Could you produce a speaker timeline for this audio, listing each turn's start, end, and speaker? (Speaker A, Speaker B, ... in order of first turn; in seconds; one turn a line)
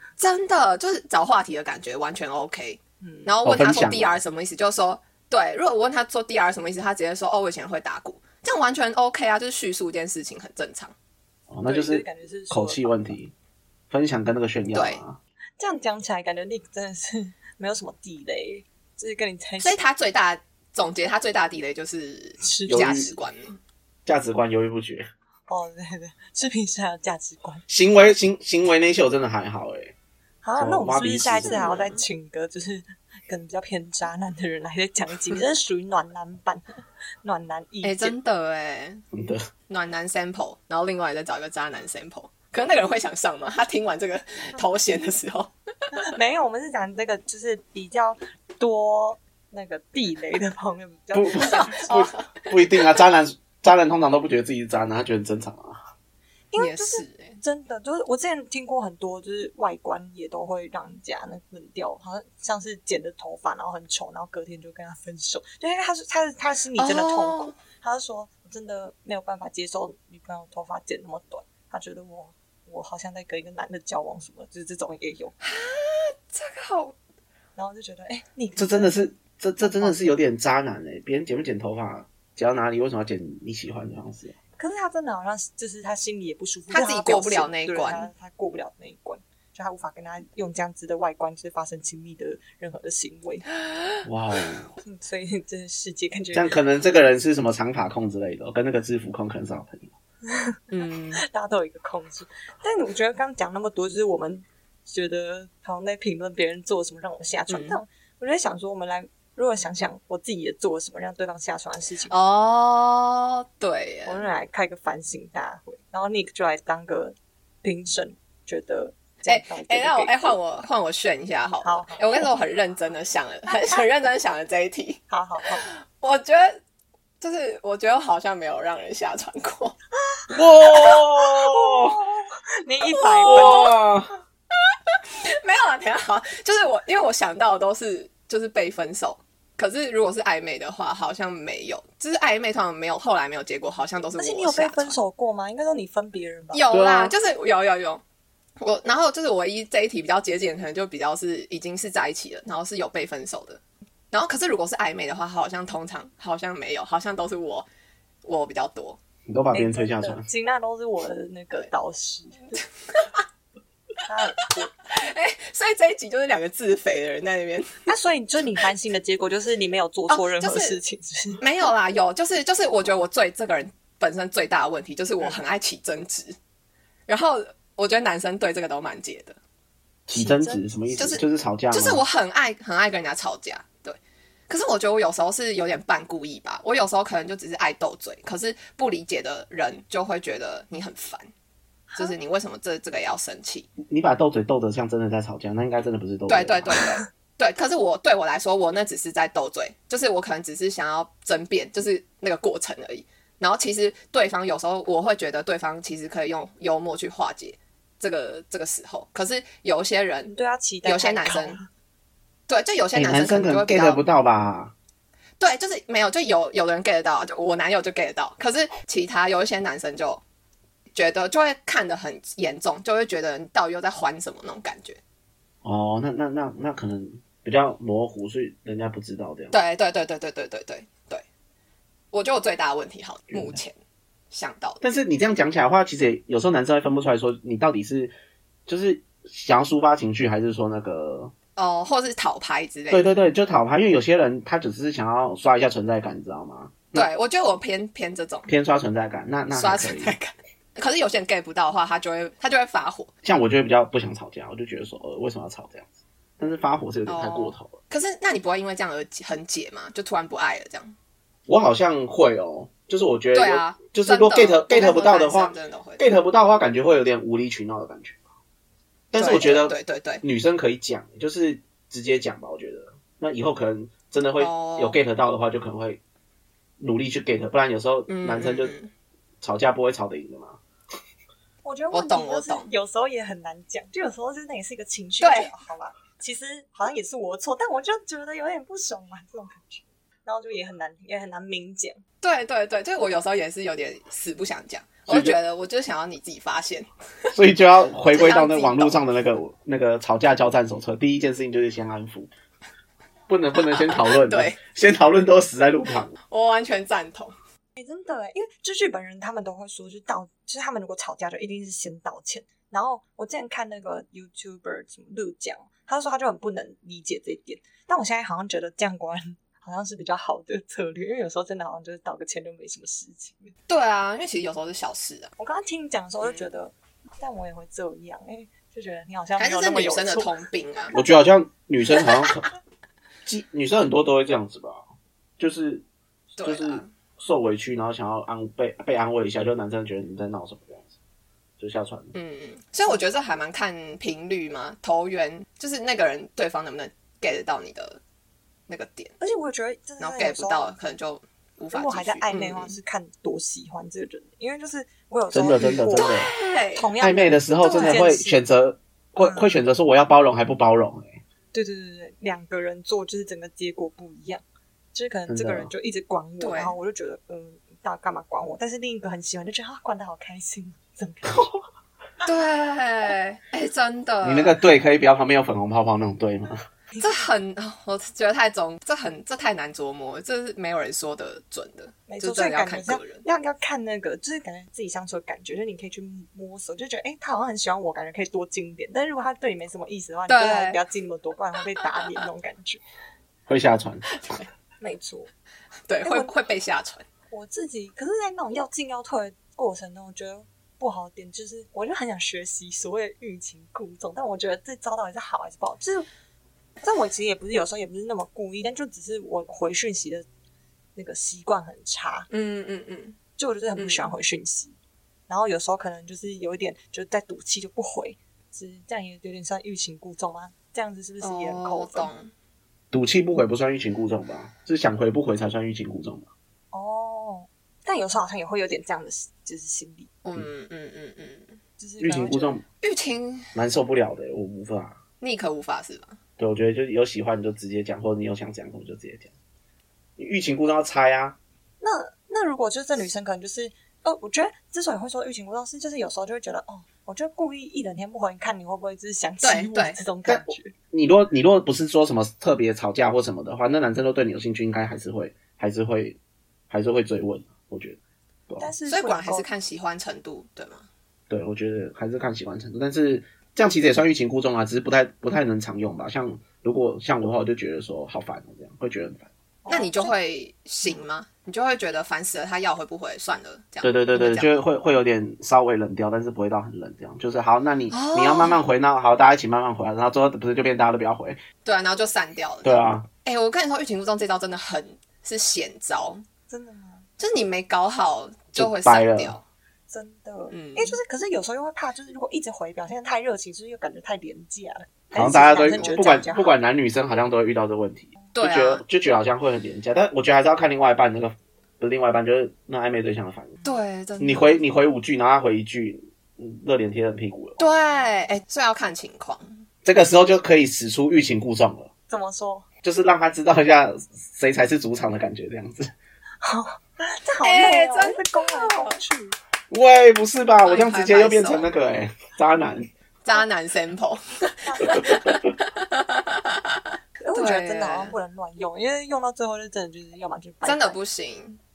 Speaker A: 0.2-10.9
Speaker B: 3.0-3.4
Speaker C: 3.4-4.2
Speaker C: 11.5-13.3
Speaker B: 11.7-13.1
Speaker C: 13.9-15.2
Speaker A: 14.7-15.0
Speaker B: 15.6-19.8
Speaker A: 19.6-23.6
Speaker B: 22.4-23.1
Speaker C: 22.7-23.1
Speaker C: 24.1-25.1
Speaker B: 25.5-27.6
Speaker C: 27.7-29.9
Speaker B: 30.4-36.6
Speaker C: 30.6-31.9
Speaker B: 37.2-38.1
Speaker A: 37.8-39.0
Speaker C: 39.1-39.4
Speaker A: 39.7-46.0
Speaker B: 46.0-52.0
Speaker C: 51.1-55.8
Speaker A: 51.4-52.9
Speaker B: 56.5-75.3
Speaker A: 56.6-57.4
Speaker A: 66.8-67.5
Speaker A: 75.4-77.0
Speaker B: 77.5-80.2
Speaker C: 78.5-84.3
Speaker B: 84.6-93.4
Speaker A: 86.7-88.1
Speaker C: 94.0-94.7
Speaker B: 94.8-96.8
Speaker C: 96.3-99.9
Speaker B: 100.2-100.6
Speaker A: 100.7-101.2
Speaker B: 101.1-112.1
Speaker A: 107.5-107.8
Speaker A: 112.1-114.2
Speaker B: 114.0-120.3
Speaker A: 119.3-125.0
Speaker B: 121.6-122.3
Speaker B: 123.5-123.8
Speaker B: 125.1-125.7
Speaker A: 125.5-126.6
Speaker A: 127.2-129.8
Speaker C: 130.3-132.0
Speaker B: 130.7-133.8
Speaker A: 132.9-133.7
Speaker C: 133.2-134.1
Speaker A: 134.7-144.9
Speaker B: 144.2-146.6
Speaker A: 146.5-148.0
Speaker C: 146.7-147.1
Speaker A: 148.6-153.6
Speaker A: 154.1-157.7
Speaker A: 158.2-159.0
Speaker C: 159.2-160.2
Speaker B: 159.5-162.6
Speaker A: 162.9-163.2
Speaker B: 164.0-164.7
Speaker A: 164.9-167.9
Speaker B: 167.9-171.4
Speaker A: 170.1-170.8
Speaker A: 171.4-176.4
Speaker A: 177.1-179.4
Speaker C: 180.1-182.0
Speaker B: 180.1-180.6
Speaker A: 180.9-184.0
Speaker A: 184.5-191.3
Speaker A: 192.0-193.7
Speaker C: 193.8-196.8
Speaker A: 196.3-211.6
Speaker B: 210.3-211.7
Speaker A: 212.5-214.0
Speaker C: 212.9-214.7
Speaker A: 215.4-220.2
Speaker A: 220.9-225.0
Speaker C: 225.6-229.5
Speaker A: 229.5-231.2
Speaker A: 232.1-233.7
Speaker C: 233.3-233.6
Speaker A: 234.3-234.8
Speaker C: 234.8-238.1
Speaker C: 238.7-241.3
Speaker A: 241.6-243.1
Speaker C: 242.9-247.1
Speaker A: 246.9-248.5
Speaker C: 248.5-250.1
Speaker A: 249.5-253.1
Speaker C: 253.2-257.8
Speaker A: 257.1-260.9
Speaker C: 261.5-268.2
Speaker A: 263.3-266.1
Speaker C: 269.1-276.0
Speaker A: 269.2-270.2
Speaker A: 274.4-275.0
Speaker C: 276.8-278.7
Speaker A: 278.1-278.9
Speaker C: 279.4-280.6
Speaker B: 281.6-292.0
Speaker A: 281.9-282.7
Speaker A: 285.2-285.5
Speaker A: 292.2-297.4
Speaker C: 295.1-295.3
Speaker C: 297.3-302.3
Speaker A: 298.1-299.0
Speaker C: 303.3-306.1
Speaker A: 303.6-304.6
Speaker A: 306.3-307.3
Speaker B: 307.8-323.5
Speaker A: 323.7-325.3
Speaker B: 325.4-330.4
Speaker A: 326.2-326.5
Speaker A: 329.4-330.9
Speaker B: 330.9-331.2
Speaker C: 330.9-332.4
Speaker C: 333.2-334.8
Speaker C: 335.4-335.9
Speaker A: 336.4-336.9
Speaker C: 336.4-340.9
Speaker C: 341.6-342.1
Speaker A: 342.1-348.0
Speaker A: 348.7-349.1
Speaker B: 349.2-350.7
Speaker A: 350.0-352.8
Speaker B: 351.7-356.2
Speaker C: 355.3-356.3
Speaker A: 355.9-356.9
Speaker B: 356.7-358.4
Speaker C: 357.0-361.2
Speaker A: 357.6-358.0
Speaker B: 359.2-359.5
Speaker B: 361.5-364.4
Speaker B: 364.9-371.5
Speaker C: 365.3-365.7
Speaker A: 366.4-366.8
Speaker A: 372.2-374.6
Speaker C: 374.2-376.6
Speaker A: 377.0-383.2
Speaker B: 382.1-392.8
Speaker A: 390.3-390.8
Speaker C: 393.5-394.1
Speaker A: 394.1-394.5
Speaker B: 394.8-395.3
Speaker A: 395.9-397.0
Speaker B: 396.0-396.3
Speaker B: 397.3-406.1
Speaker B: 406.8-410.2
Speaker B: 410.9-412.3
Speaker A: 412.3-413.2
Speaker B: 413.4-414.8
Speaker A: 413.8-414.0
Speaker B: 415.3-422.1
Speaker A: 421.2-422.3
Speaker C: 422.9-426.3
Speaker B: 426.7-430.1
Speaker A: 430.2-431.6
Speaker B: 431.8-432.6
Speaker C: 432.0-432.6
Speaker A: 432.8-433.5
Speaker C: 433.5-435.0
Speaker A: 435.2-436.2
Speaker C: 436.4-439.3
Speaker C: 440.2-441.4
Speaker B: 441.8-450.7
Speaker A: 449.4-450.0
Speaker C: 450.2-456.2
Speaker C: 456.7-458.7
Speaker B: 458.6-459.5
Speaker A: 458.9-460.9
Speaker C: 461.3-469.3
Speaker B: 469.6-470.1
Speaker A: 469.7-474.5
Speaker C: 473.8-481.4
Speaker A: 477.9-478.6
Speaker A: 481.6-486.2
Speaker C: 482.6-483.1
Speaker B: 486.5-487.1
Speaker A: 487.2-489.4
Speaker C: 488.5-489.4
Speaker B: 489.9-496.5
Speaker A: 490.5-491.0
Speaker C: 495.1-503.6
Speaker A: 495.8-496.2
Speaker A: 498.3-498.8
Speaker A: 503.6-504.6
Speaker C: 504.2-507.6
Speaker A: 507.6-509.6
Speaker C: 509.8-511.9
Speaker B: 512.1-512.6
Speaker C: 512.8-515.9
Speaker B: 516.4-519.4
Speaker A: 517.4-519.0
Speaker C: 519.7-522.9
Speaker A: 520.6-521.7
Speaker A: 523.2-526.8
Speaker B: 524.6-525.2
Speaker B: 527.2-531.0
Speaker A: 527.4-528.1
Speaker A: 530.6-531.6